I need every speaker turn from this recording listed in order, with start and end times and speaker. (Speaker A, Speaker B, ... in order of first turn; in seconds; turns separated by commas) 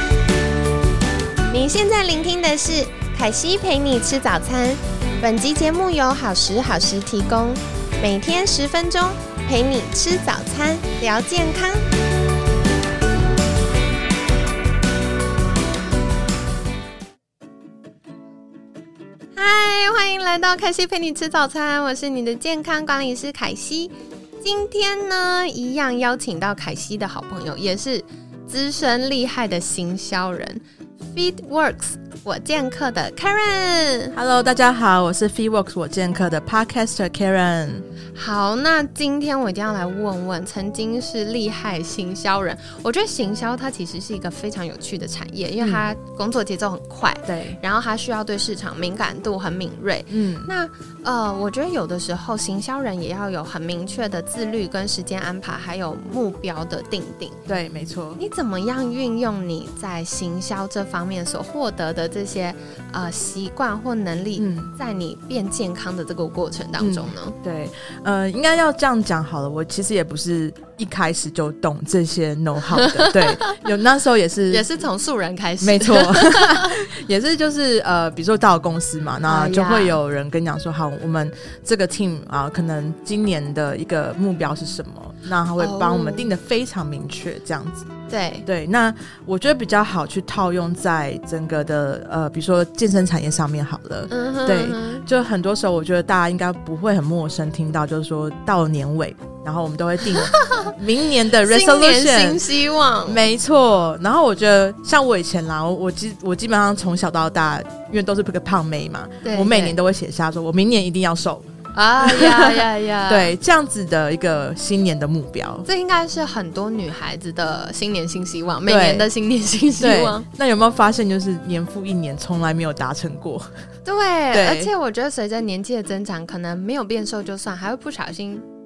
Speaker A: 1.5-11.9, Speaker A: 19.4-30.6, Speaker A: 31.1-34.1, Speaker B: 34.1-37.8, Speaker A: 38.1-57.4, Speaker B: 45.6-45.9, Speaker B: 47.2-47.6, Speaker B: 50.1-50.5, Speaker B: 57.5-58.2, Speaker A: 58.2-67.4, Speaker B: 64.3-64.7, Speaker B: 66.8-74.7, Speaker A: 72.7-73.5, Speaker A: 74.5-76.8, Speaker B: 75.6-87.9, Speaker A: 79.2-80.0, Speaker A: 85.6-86.3, Speaker A: 88.1-88.5, Speaker B: 88.5-102.4, Speaker A: 94.1-95.0, Speaker A: 100.1-100.7, Speaker A: 101.4-103.2, Speaker B: 103.0-111.5, Speaker A: 109.2-109.8, Speaker A: 111.7-113.3, Speaker B: 112.0-115.7, Speaker A: 115.6-120.2, Speaker B: 118.7-119.1, Speaker B: 119.8-123.5, Speaker A: 123.8-128.4, Speaker B: 124.3-124.7